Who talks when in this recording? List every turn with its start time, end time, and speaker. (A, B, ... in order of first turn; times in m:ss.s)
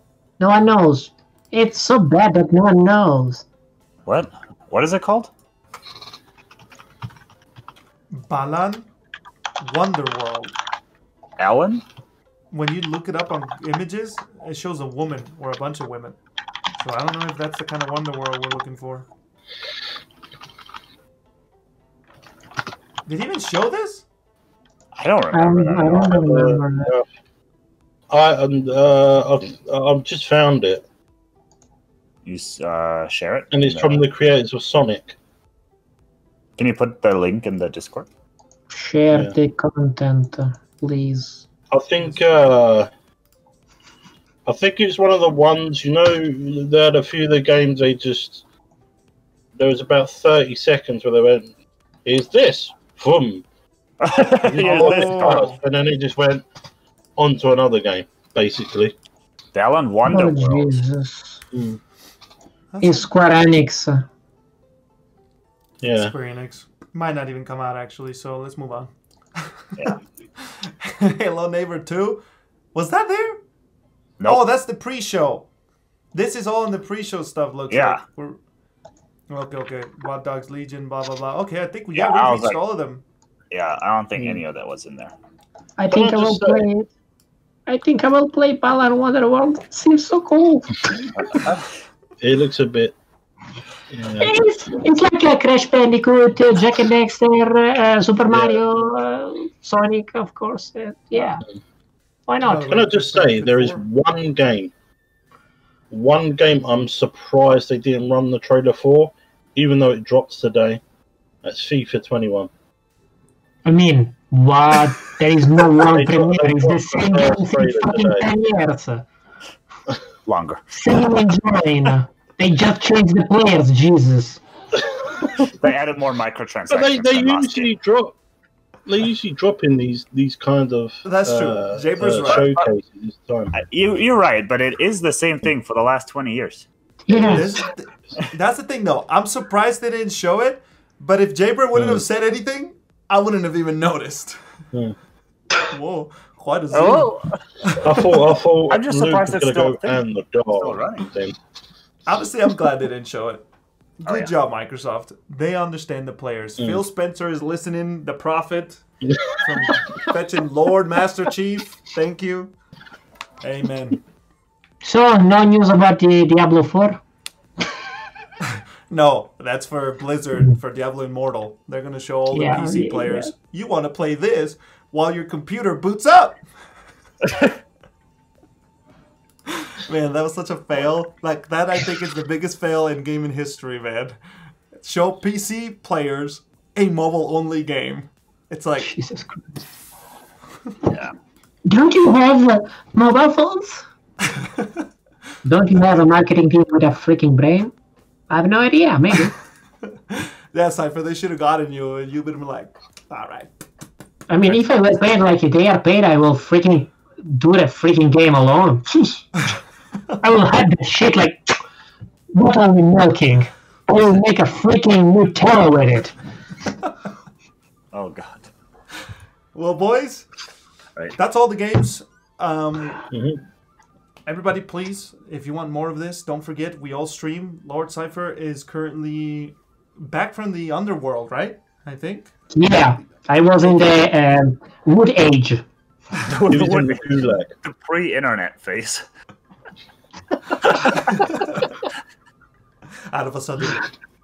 0:00.4-0:03.4 A
0:04.0-0:05.3 B
0:08.1-0:08.9 C
0:09.6-0:10.5 C
0:11.4-0:11.8 B
0:12.5-0:16.2 C
0:16.8-0:19.1 C
0:23.1-0:24.0 C
0:24.9-0:26.2 B
0:25.3-0:26.9 A
0:26.0-0:27.0 D
0:28.1-0:30.8 D
0:32.2-0:34.0 B
0:33.5-0:35.2 D
0:36.6-0:38.1 B
0:38.7-0:41.4 A
0:41.7-0:42.9 D
0:42.0-0:42.3 C
0:44.4-0:48.4 D
0:49.6-0:51.5 D
0:52.0-0:53.4 D
0:54.0-0:55.5 B
0:54.4-0:56.4 D
0:54.5-0:55.6 C
0:57.2-0:58.9 D
0:59.5-1:00.8 B
1:00.0-1:01.4 A
1:01.5-1:01.8 D
1:02.7-1:03.1 C
1:02.8-1:04.0 A
1:05.8-1:06.1 D
1:05.9-1:12.2 C
1:12.7-1:13.4 C
1:14.2-1:15.5 C
1:16.1-1:18.4 C
1:17.7-1:18.0 B
1:19.3-1:23.0 C
1:21.9-1:22.6 B
1:23.5-1:25.1 B
1:25.8-1:26.9 A
1:25.9-1:26.6 D
1:27.7-1:31.3 A
1:31.1-1:31.7 B
1:32.2-1:33.0 D
1:33.9-1:34.4 D
1:34.2-1:41.4 A
1:38.3-1:38.6 D
1:42.3-1:42.7 A
1:42.4-1:43.8 C
1:42.6-1:44.7 D
1:45.9-1:50.8 D
1:51.4-1:52.5 D
1:53.6-1:59.1 A
1:55.8-1:58.3 D
2:00.2-2:00.7 B
2:00.7-2:04.4 A
2:05.4-2:07.7 B
2:06.7-2:08.2 D
2:08.8-2:13.5 D
2:11.0-2:12.5 C
2:12.3-2:12.7 B
2:13.5-2:16.6 B
2:17.0-2:17.6 A
2:17.1-2:18.2 D
2:17.3-2:24.4 C
2:21.8-2:22.0 D
2:25.7-2:28.0 C
2:26.7-2:27.4 B
2:27.8-2:31.4 D
2:28.7-2:31.1 B
2:32.1-2:33.4 C
2:34.0-2:38.8 C
2:39.0-2:39.4 D
2:39.4-2:42.5 C
2:43.4-2:44.0 C
2:44.8-2:47.0 A
2:48.9-2:56.4 C
2:52.3-2:53.3 A
2:59.8-3:04.2 C
3:04.8-3:08.9 C
3:08.8-3:09.7 A
3:10.9-3:11.1 B
3:11.6-3:13.8 A
3:14.3-3:14.8 C
3:15.4-3:17.7 A
3:18.3-3:19.3 A
3:19.9-3:23.6 C
3:24.3-3:29.4 A
3:30.2-3:31.5 A
3:32.3-3:36.1 A
3:37.9-3:38.5 B
3:39.5-3:40.3 C
3:41.2-3:43.0 C
3:43.1-3:43.4 D
3:44.2-3:52.3 C
3:52.5-3:55.6 A
3:56.1-3:59.0 B
3:56.5-3:57.5 D
4:00.6-4:01.2 B
4:00.9-4:01.7 C
4:03.1-4:03.9 C